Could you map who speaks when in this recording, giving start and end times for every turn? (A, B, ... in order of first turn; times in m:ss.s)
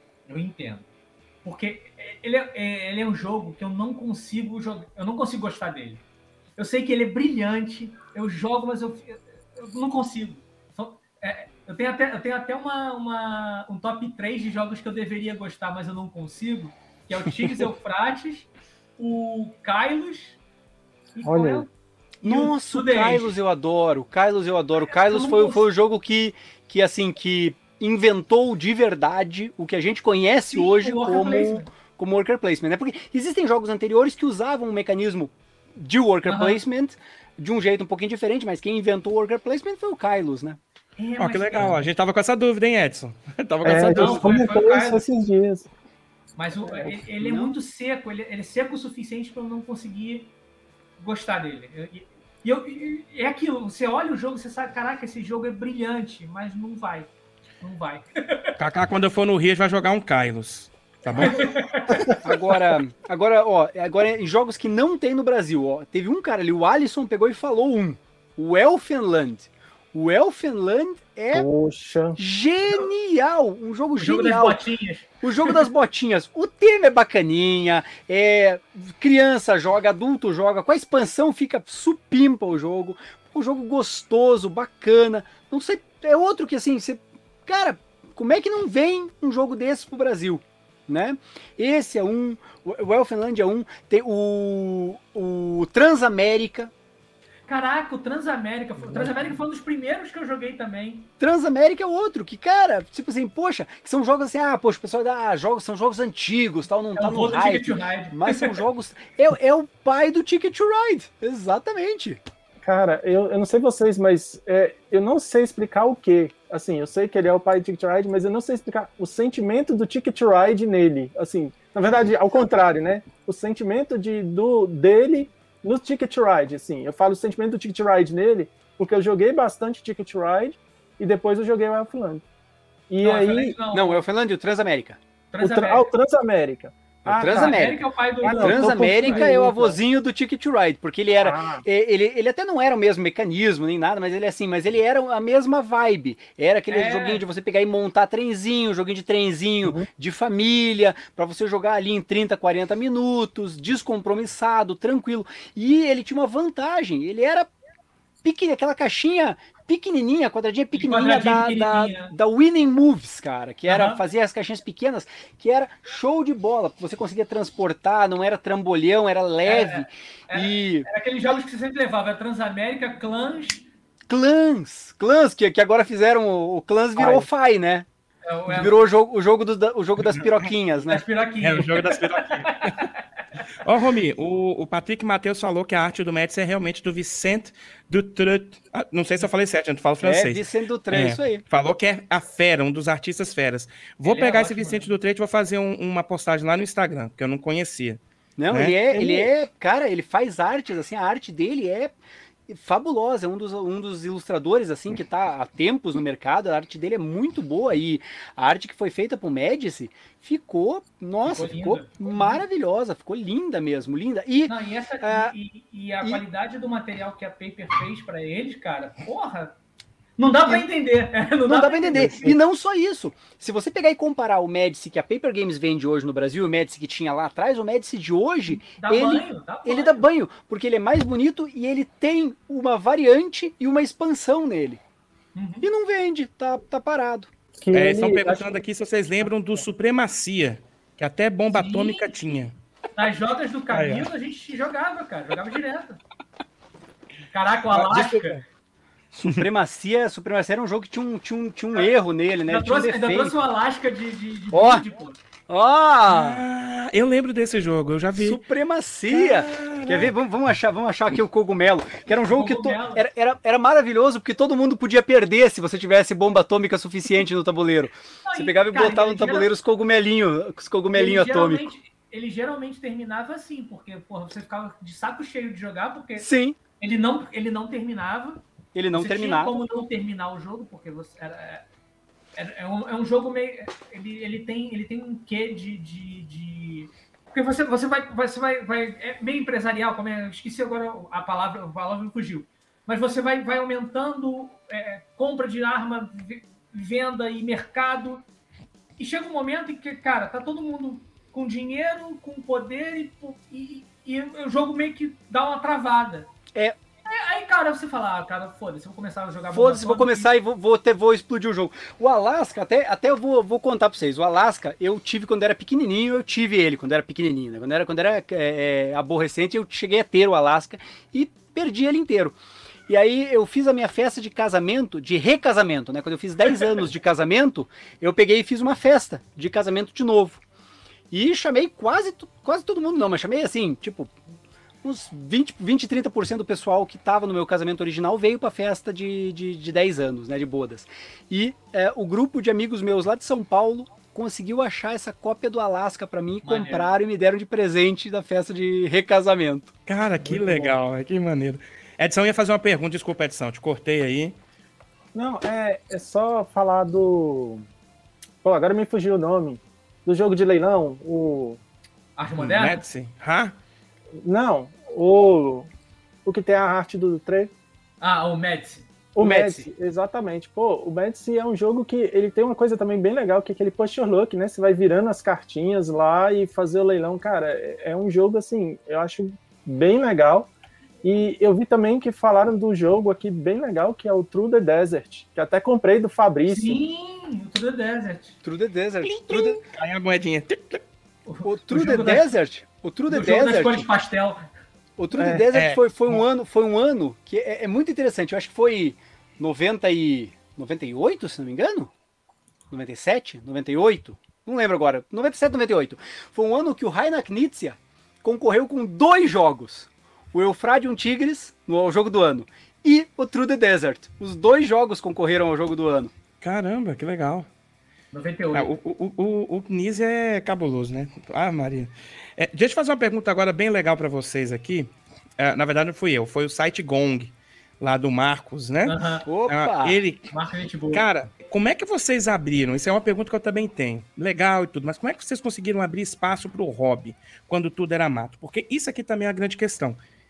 0:00.3-0:00.8 A
0:01.4-0:06.0 A
0:06.6-0:20.4 A
0:21.1-0:21.7 A
0:21.2-0:21.6 B
0:22.2-0:40.6 C
0:22.2-0:23.3 A
0:24.8-0:25.6 A
0:30.5-0:31.7 A
0:36.2-0:36.6 A
0:41.0-0:41.8 A
0:41.2-0:44.5 D
0:43.6-0:45.7 B
0:43.9-0:45.0 A
0:46.4-0:50.3 A
0:46.6-0:46.9 B
0:47.2-0:47.6 C
0:51.0-0:58.5 A
0:58.6-1:01.7 D
1:01.2-1:02.0 A
1:02.2-1:11.5 C
1:11.3-1:12.2 B
1:12.2-1:14.6 C
1:14.0-1:15.6 A
1:15.2-1:36.7 C
1:37.5-1:41.1 A
1:41.2-1:52.2 C
1:47.0-1:48.6 A
1:52.6-2:12.2 B
2:12.9-2:13.6 B
2:13.0-2:14.0 A
2:13.7-2:15.0 C
2:15.3-2:15.9 A
2:15.4-2:19.8 B
2:17.0-2:17.8 C
2:17.2-2:19.3 A
2:18.4-2:37.5 C
2:21.2-2:21.6 B
2:26.7-2:27.2 A
2:38.2-2:50.9 C
2:40.7-2:42.1 A
2:43.7-2:44.0 A
2:49.4-2:53.6 A
2:54.1-2:57.8 C
2:57.0-2:57.3 B
2:58.2-2:58.8 A
2:58.5-3:01.0 C
3:00.0-3:00.5 D
3:00.9-3:02.9 A
3:01.4-3:02.9 D
3:03.6-3:18.8 D
3:10.0-3:11.4 C
3:14.0-3:14.9 A
3:18.4-3:22.0 C
3:18.9-3:19.3 B
3:22.5-3:35.3 C
3:31.2-3:32.4 A
3:34.5-3:39.6 A
3:40.2-3:42.2 A
3:41.5-3:54.8 C
3:41.9-3:42.4 B
3:48.7-3:50.0 A
3:55.3-3:55.7 A
3:55.6-3:57.3 C
3:57.6-3:58.5 B
3:57.7-4:02.5 D
4:01.5-4:02.4 A
4:03.0-4:06.0 A
4:03.7-4:04.1 D
4:07.3-4:08.4 A
4:07.7-4:08.4 D
4:09.1-4:09.5 D
4:09.4-4:13.3 C
4:12.5-4:15.2 A
4:14.5-4:14.8 C
4:15.5-4:16.4 C
4:16.1-4:18.4 D
4:18.2-4:31.7 C
4:19.1-4:20.1 D
4:22.1-4:23.0 A
4:28.2-4:29.5 A
4:30.9-4:41.6 A
4:36.2-4:36.6 C
4:38.7-4:39.6 C
4:42.3-4:58.2 A
4:59.0-5:06.3 A
5:07.1-5:10.3 A
5:09.5-5:22.4 C
5:22.9-5:30.4 C
5:31.1-5:34.1 C
5:34.8-5:49.7 C
5:46.4-5:46.9 A
5:49.9-5:54.4 D
5:50.2-5:50.8 B
5:55.1-5:57.6 B
5:58.4-6:01.6 B
6:02.2-6:02.8 A
6:02.4-6:03.6 D
6:04.2-6:05.7 B
6:06.2-6:07.5 B
6:08.0-6:09.6 A
6:09.1-6:20.5 B
6:21.0-6:26.8 B
6:26.5-6:28.4 A
6:28.4-6:29.6 C
6:29.0-6:30.8 D
6:31.2-6:32.3 A
6:31.4-6:33.9 C
6:33.1-6:34.4 A
6:35.0-6:41.9 C
6:35.1-6:35.5 B
6:35.4-6:36.2 D
6:42.7-6:56.1 C
6:56.4-6:57.5 D
6:58.1-6:58.7 A
6:58.5-7:10.3 D
7:08.8-7:09.3 A
7:09.2-7:10.0 C
7:10.3-7:11.0 A
7:10.9-7:20.0 D